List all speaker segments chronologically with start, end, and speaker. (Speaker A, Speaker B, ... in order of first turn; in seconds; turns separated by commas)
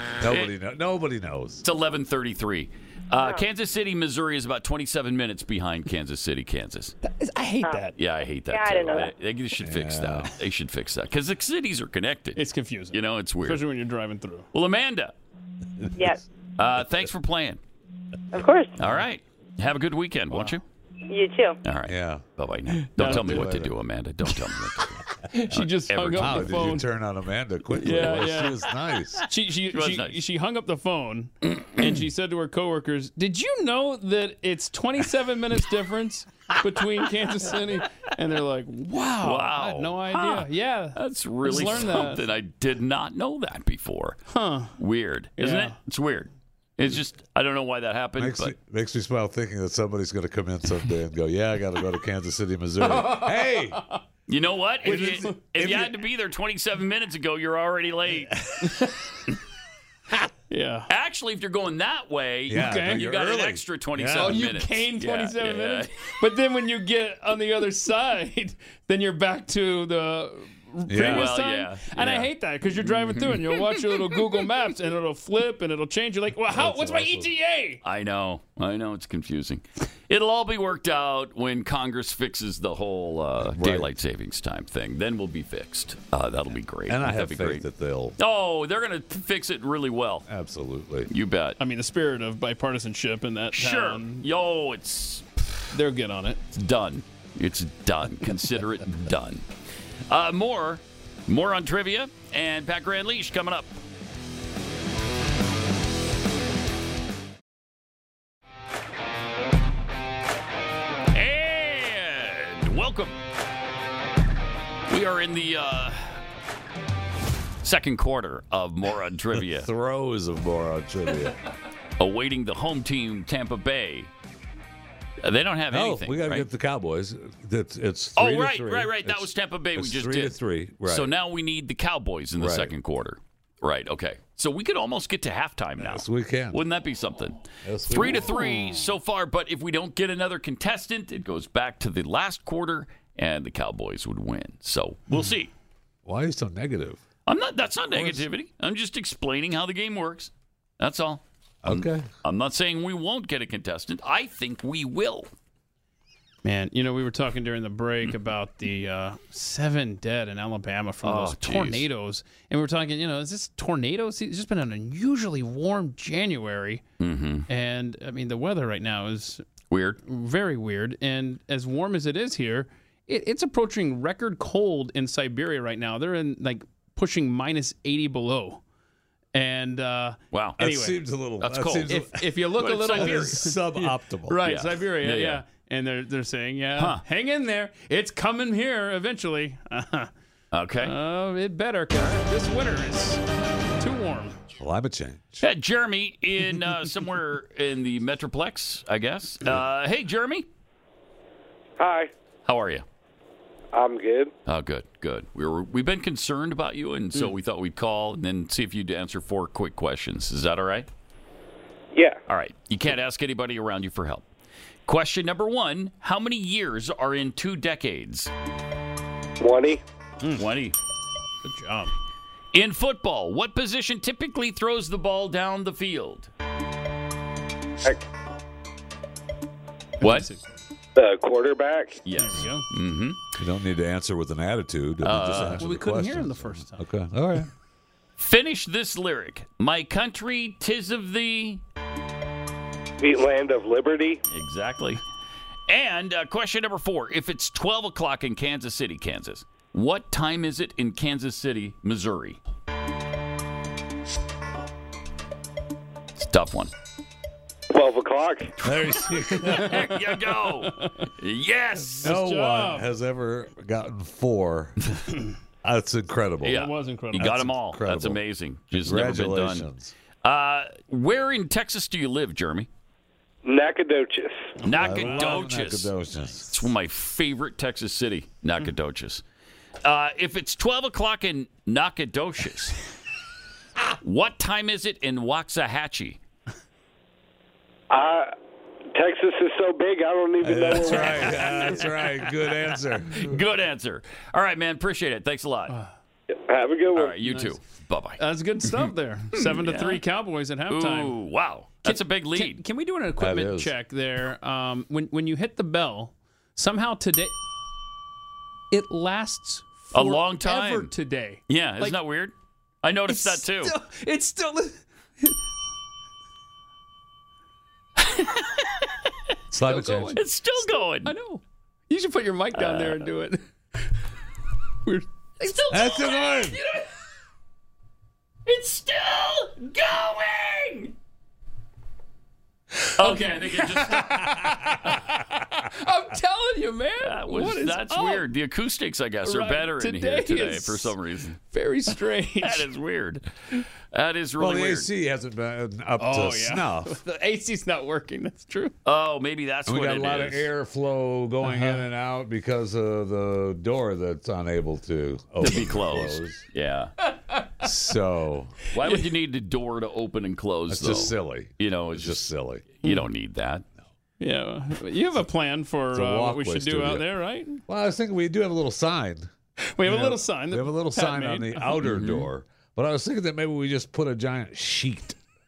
Speaker A: 0.2-1.6, Speaker B: 0.2-0.5, Speaker B: 1.6-6.9, Speaker C: 3.2-3.4, Speaker D: 7.0-7.9, Speaker C: 7.6-7.9, Speaker B: 8.0-12.4, Speaker C: 8.5-9.1, Speaker A: 9.6-10.3, Speaker D: 12.3-14.5, Speaker B: 12.9-13.6, Speaker B: 14.5-15.1, Speaker C: 15.9-16.2, Speaker B: 16.6-17.6, Speaker C: 18.3-18.7, Speaker B: 18.8-20.6, Speaker D: 20.3-20.6, Speaker C: 21.1-21.6, Speaker B: 21.6-26.8, Speaker A: 21.9-22.2, Speaker D: 22.8-23.4, Speaker A: 23.0-23.7, Speaker D: 25.3-26.9, Speaker A: 26.1-29.2, Speaker D: 27.8-28.6, Speaker B: 27.9-28.3, Speaker D: 29.2-42.2, Speaker B: 29.7-30.2, Speaker B: 39.2-44.2, Speaker D: 44.3-44.7, Speaker B: 44.8-48.5, Speaker D: 45.4-45.8, Speaker A: 48.2-53.8, Speaker D: 52.8-54.0, Speaker B: 54.3-58.5, Speaker D: 54.8-55.4, Speaker A: 54.8-55.9, Speaker D: 58.6-59.1, Speaker D: 60.5-60.9, Speaker B: 60.9-65.9, Speaker A: 62.5-64.4, Speaker D: 62.5-63.0, Speaker D: 64.2-77.8, Speaker A: 70.9-71.3, Speaker B: 71.0-72.3, Speaker B: 72.8-74.0, Speaker A: 76.5-77.3, Speaker B: 77.8-87.6, Speaker A: 83.4-83.9, Speaker A: 86.9-88.2, Speaker B: 88.2-90.3, Speaker A: 90.3-91.1, Speaker B: 91.1-91.5, Speaker D: 91.6-94.2, Speaker B: 93.5-95.3, Speaker D: 95.7-96.4, Speaker B: 96.5-99.4, Speaker B: 100.1-103.8, Speaker B: 111.1-113.2, Speaker B: 114.9-116.2, Speaker B: 117.6-119.7, Speaker A: 119.3-121.3, Speaker B: 122.0-124.1, Speaker B: 125.2-126.5, Speaker A: 125.7-131.1, Speaker B: 128.2-145.5, Speaker A: 132.4-132.7, Speaker A: 135.8-136.6, Speaker A: 137.6-138.3, Speaker D: 138.2-138.9, Speaker A: 146.0-147.0, Speaker B: 147.2-155.3, Speaker A: 147.9-148.2, Speaker A: 151.6-152.1, Speaker D: 156.4-166.8, Speaker B: 161.0-161.8, Speaker B: 167.0-167.5, Speaker D: 167.5-169.4, Speaker B: 169.7-170.0, Speaker D: 170.1-178.6, Speaker D: 179.3-181.0, Speaker B: 180.3-180.6, Speaker A: 180.6-182.3, Speaker B: 181.4-181.9, Speaker D: 181.9-190.1, Speaker B: 182.6-183.4, Speaker A: 182.9-184.4, Speaker B: 184.4-185.4, Speaker B: 186.8-187.0, Speaker B: 190.5-190.9, Speaker D: 190.8-193.2, Speaker D: 193.8-194.4, Speaker A: 194.6-195.4, Speaker B: 195.4-200.4, Speaker E: 201.8-202.1, Speaker B: 202.4-202.8, Speaker E: 203.7-204.3, Speaker B: 204.4-210.9, Speaker E: 211.9-212.2, Speaker B: 212.3-214.3, Speaker B: 214.8-218.3, Speaker E: 219.4-219.8, Speaker B: 220.3-220.8, Speaker D: 221.4-221.9, Speaker B: 222.5-226.3, Speaker B: 230.0-230.3, Speaker D: 230.0-230.6, Speaker E: 230.9-232.0, Speaker B: 232.0-233.3, Speaker D: 232.2-232.7, Speaker A: 233.4-237.5, Speaker B: 235.0-235.6, Speaker D: 235.6-236.9, Speaker B: 238.2-241.6, Speaker E: 243.0-244.2, Speaker B: 244.3-245.0, Speaker B: 245.7-252.4, Speaker B: 256.2-256.7, Speaker E: 257.7-258.5, Speaker A: 258.6-259.9, Speaker B: 258.6-262.1, Speaker D: 259.4-259.9, Speaker D: 260.6-261.1, Speaker A: 261.9-264.8, Speaker D: 262.0-262.9, Speaker A: 265.6-268.2, Speaker B: 266.4-269.7, Speaker D: 266.4-267.4, Speaker A: 268.7-269.9, Speaker B: 270.2-272.7, Speaker E: 273.4-274.4, Speaker D: 274.6-275.5, Speaker B: 274.6-275.9, Speaker A: 274.7-276.5, Speaker B: 276.5-279.2, Speaker B: 279.8-282.8, Speaker B: 284.0-286.2, Speaker E: 287.9-288.3, Speaker E: 288.9-291.8, Speaker A: 290.4-293.4, Speaker B: 290.9-292.2, Speaker D: 291.2-291.5, Speaker B: 293.1-295.7, Speaker E: 296.3-297.2, Speaker B: 296.9-300.0, Speaker D: 297.3-297.5, Speaker D: 298.2-301.1, Speaker B: 300.7-302.6, Speaker D: 301.8-307.3, Speaker A: 303.2-303.7, Speaker D: 308.7-312.0, Speaker B: 309.9-310.9, Speaker B: 311.5-313.7, Speaker D: 313.1-315.3, Speaker B: 318.1-318.4, Speaker A: 319.5-320.2, Speaker D: 319.6-323.4, Speaker B: 320.1-321.1, Speaker B: 322.5-323.1, Speaker D: 324.8-326.8, Speaker A: 325.7-326.6, Speaker B: 328.5-330.9, Speaker D: 332.8-338.3, Speaker B: 333.0-334.4, Speaker B: 337.0-341.4, Speaker D: 339.2-340.9, Speaker D: 341.5-342.6, Speaker B: 342.4-344.9, Speaker A: 344.4-346.9, Speaker D: 346.0-348.7, Speaker B: 348.8-350.5, Speaker A: 349.7-356.4, Speaker D: 351.4-351.8, Speaker B: 355.4-356.9, Speaker A: 357.6-358.5, Speaker B: 358.7-362.3, Speaker A: 360.7-362.7, Speaker B: 362.8-363.6, Speaker D: 364.2-367.6, Speaker A: 365.9-367.1, Speaker A: 367.7-369.3, Speaker D: 369.6-371.8, Speaker A: 369.8-375.2, Speaker B: 371.8-372.3